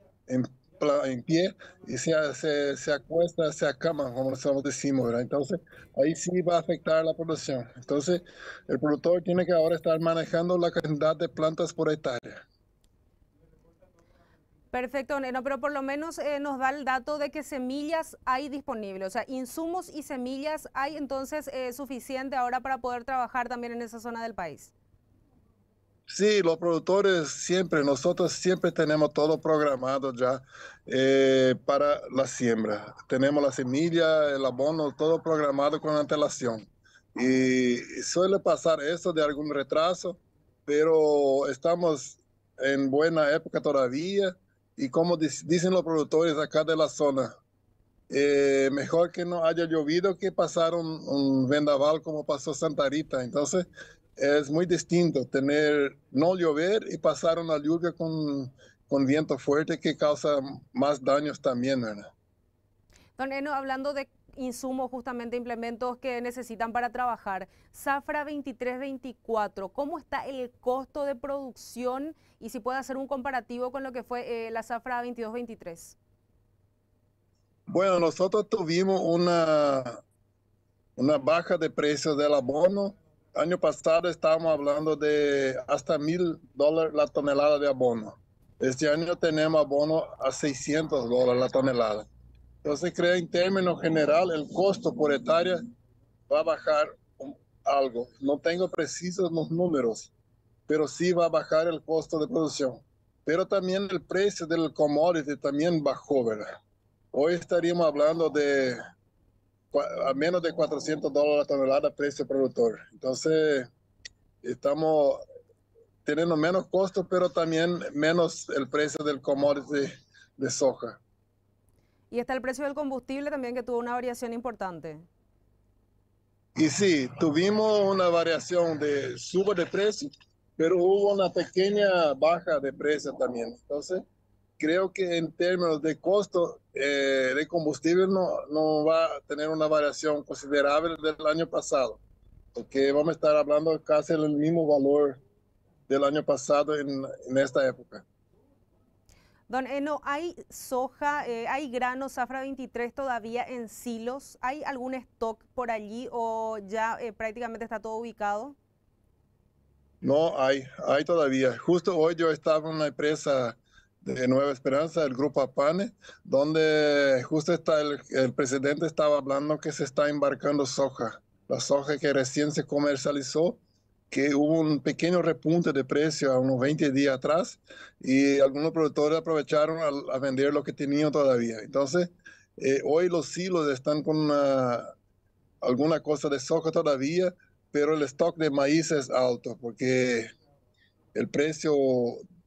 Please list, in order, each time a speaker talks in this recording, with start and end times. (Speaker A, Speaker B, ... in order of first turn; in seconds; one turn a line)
Speaker A: 0.3-12.4
Speaker B: 14.7-24.7
Speaker A: 26.1-47.3
Speaker A: 48.1-62.1
Speaker B: 63.2-76.0
Speaker A: 77.7-80.0
Speaker A: 81.0-92.0
Speaker A: 92.6-95.6
Speaker A: 96.3-100.1
Speaker A: 100.7-106.5
Speaker A: 107.1-108.8
Speaker A: 109.7-113.7
Speaker A: 114.4-115.2
Speaker A: 116.0-121.0
Speaker B: 122.1-125.1
Speaker A: 126.6-134.0
Speaker A: 134.6-142.0
Speaker A: 142.6-145.2
Speaker A: 145.9-148.0
Speaker B: 149.5-158.6
Speaker A: 160.0-173.6
Speaker A: 174.1-184.9
Speaker A: 185.6-190.3
Speaker A: 191.2-192.2